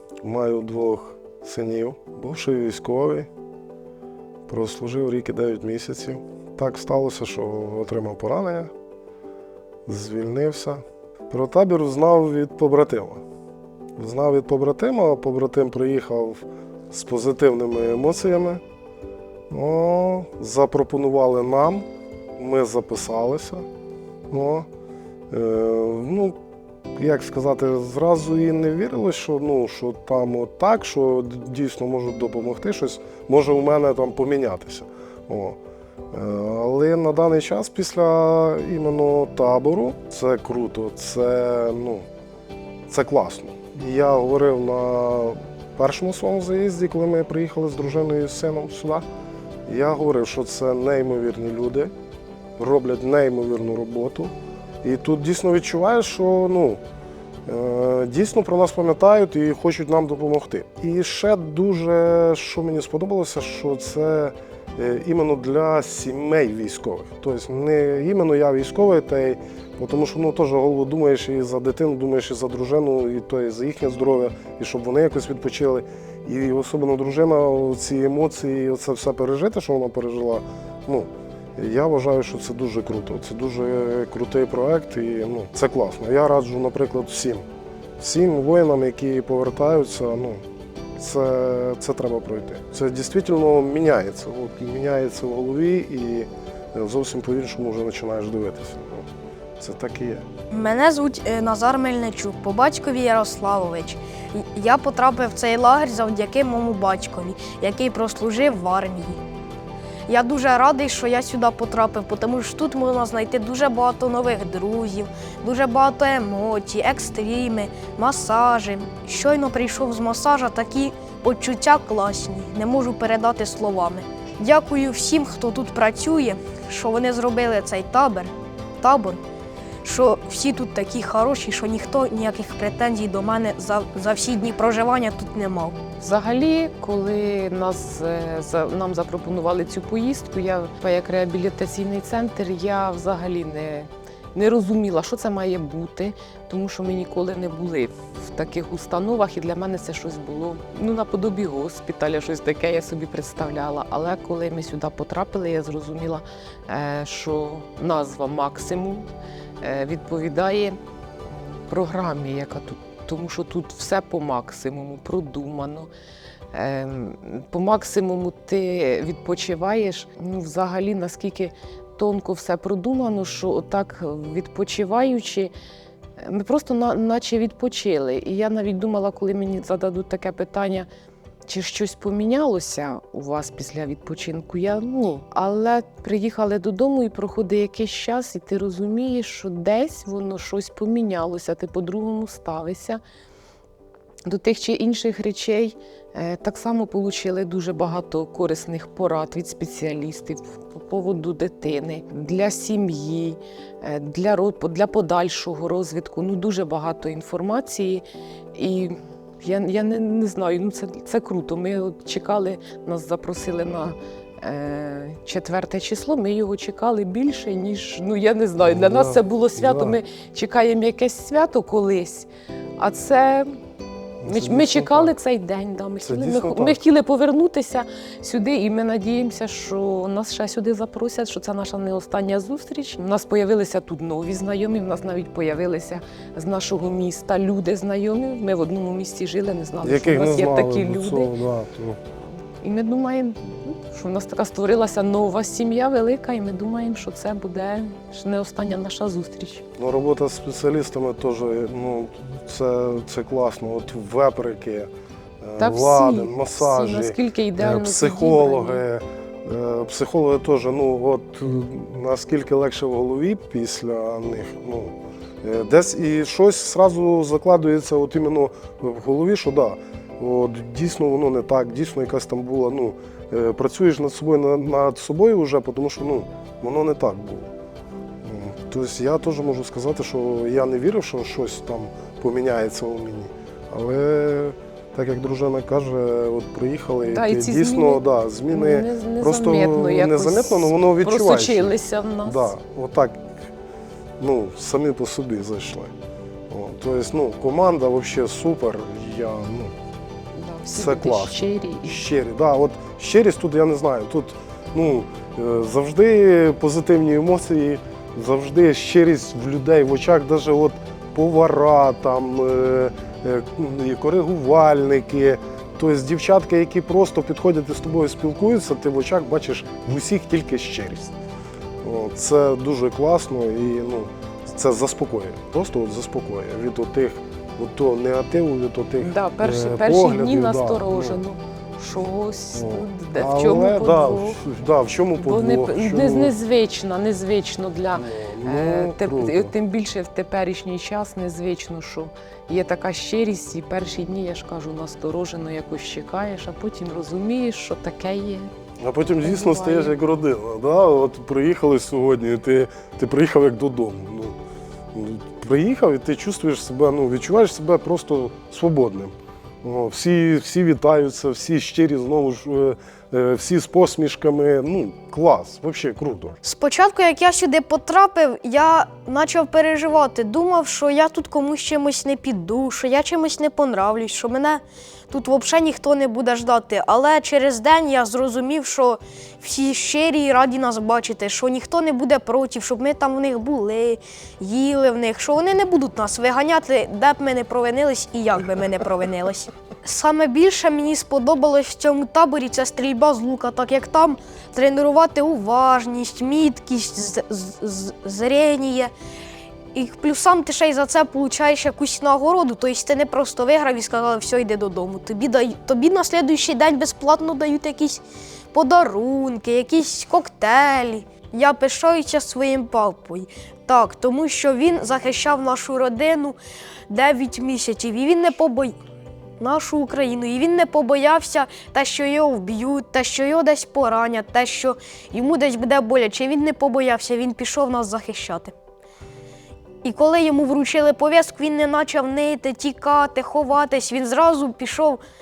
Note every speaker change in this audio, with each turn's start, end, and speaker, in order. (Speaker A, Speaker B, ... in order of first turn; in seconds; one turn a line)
Speaker A: 0.2-3.3
Speaker A: 4.5-8.7
Speaker A: 9.9-13.2
Speaker A: 14.0-18.6
Speaker A: 19.5-21.9
Speaker A: 22.4-23.6
Speaker A: 24.3-24.7
Speaker A: 25.3-26.4
Speaker A: 26.9-35.6
Speaker A: 36.1-42.1
Speaker A: 42.9-49.0
Speaker A: 49.7-51.9
Speaker A: 52.6-56.8
Speaker A: 57.5-87.5
Speaker A: 88.0-90.4
Speaker A: 91.0-99.1
Speaker A: 99.6-100.2
Speaker B: 100.5-109.2
Speaker B: 110.1-129.2
Speaker B: 129.8-135.8
Speaker C: 136.0-159.1
Speaker C: 159.6-165.9
Speaker C: 166.5-175.5
Speaker C: 176.2-180.9
Speaker C: 181.5-193.0
Speaker C: 194.2-223.5
Speaker A: 218.6-220.0
Speaker A: 224.2-225.1
Speaker C: 224.2-241.4
Speaker A: 226.0-226.8
Speaker A: 239.8-242.0
Speaker C: 242.6-249.6
Speaker A: 249.8-254.9
Speaker A: 255.4-277.5
Speaker C: 255.6-258.8
Speaker A: 278.2-293.3
Speaker C: 287.0-292.5
Speaker A: 294.2-295.9
Speaker A: 296.5-299.7
Speaker C: 300.4-302.0
Speaker A: 300.7-321.1
Speaker A: 321.8-331.2
Speaker C: 329.0-334.4
Speaker A: 332.5-336.3
Speaker C: 335.2-348.5
Speaker A: 337.9-339.5
Speaker A: 348.8-354.4
Speaker C: 349.2-349.9
Speaker A: 354.9-366.4
Speaker B: 366.4-398.9
Speaker B: 399.7-416.4
Speaker B: 416.9-418.8
Speaker B: 419.4-428.5
Speaker B: 429.8-435.0